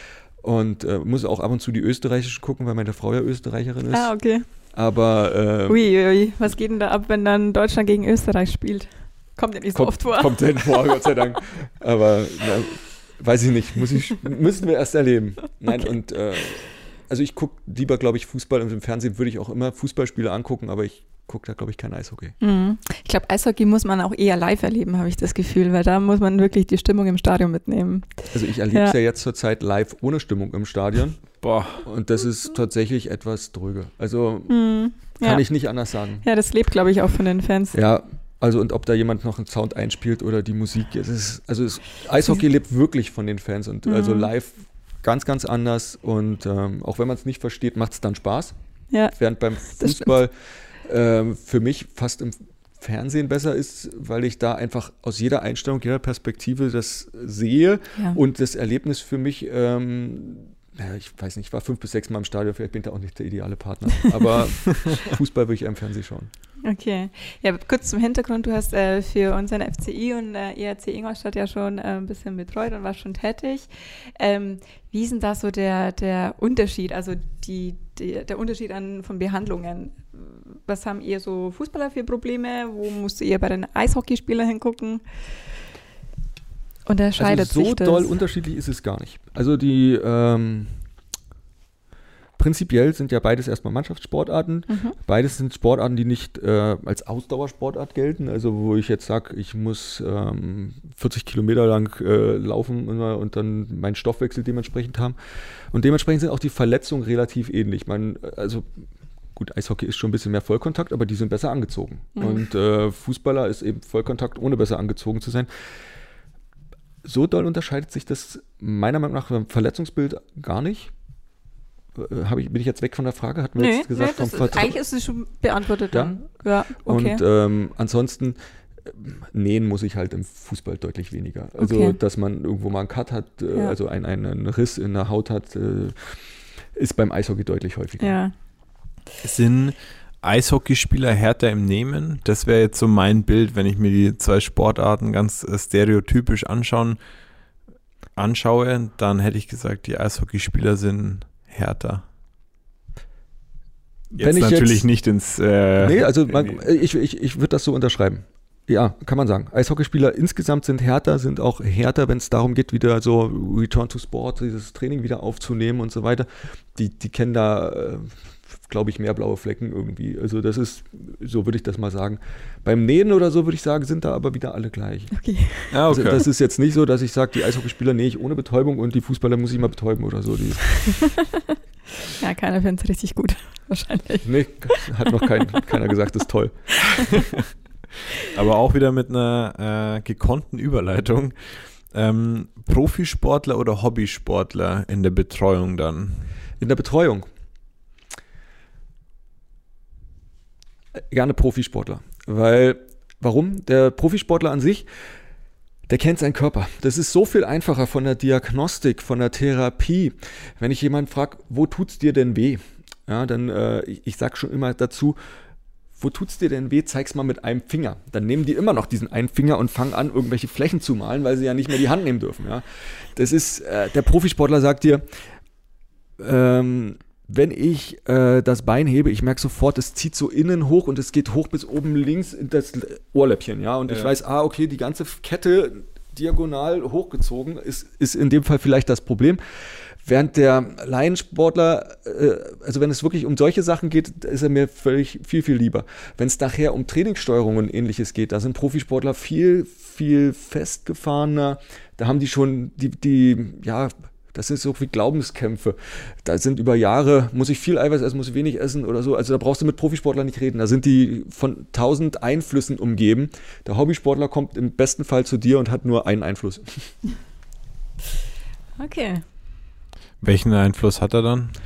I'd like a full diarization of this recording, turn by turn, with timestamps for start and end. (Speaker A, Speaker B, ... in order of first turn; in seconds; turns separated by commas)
Speaker A: 0.4-5.8, Speaker B: 3.9-4.5, Speaker B: 5.7-11.1, Speaker A: 9.7-22.4, Speaker B: 15.7-15.9, Speaker B: 22.4-28.9, Speaker A: 28.3-36.2, Speaker C: 31.4-31.9, Speaker B: 34.5-35.4, Speaker B: 36.2-37.8, Speaker A: 37.7-48.6, Speaker B: 43.9-44.3, Speaker B: 48.9-50.2, Speaker A: 49.1-66.3, Speaker B: 66.6-85.5, Speaker B: 86.9-88.1, Speaker A: 87.2-90.8, Speaker A: 92.4-105.2, Speaker B: 94.7-95.0, Speaker A: 105.7-108.7, Speaker A: 109.3-115.5, Speaker B: 112.2-112.5, Speaker A: 117.0-120.9, Speaker A: 122.0-124.8, Speaker B: 123.6-127.2, Speaker A: 125.9-136.2, Speaker B: 131.6-132.0, Speaker A: 136.8-138.2, Speaker B: 138.0-138.3, Speaker C: 139.2-147.0, Speaker C: 148.2-152.1, Speaker C: 154.1-156.6, Speaker A: 154.2-154.9, Speaker A: 155.8-175.1, Speaker B: 175.1-175.9, Speaker C: 175.7-176.2, Speaker A: 175.9-181.1, Speaker B: 182.2-185.2, Speaker A: 184.2-186.7, Speaker C: 188.3-196.3, Speaker A: 196.6-197.3, Speaker A: 201.1-204.9, Speaker A: 205.9-215.2, Speaker A: 216.0-225.1, Speaker A: 226.2-239.4, Speaker C: 233.9-234.1, Speaker A: 240.0-266.9, Speaker B: 268.8-269.2, Speaker C: 270.2-271.6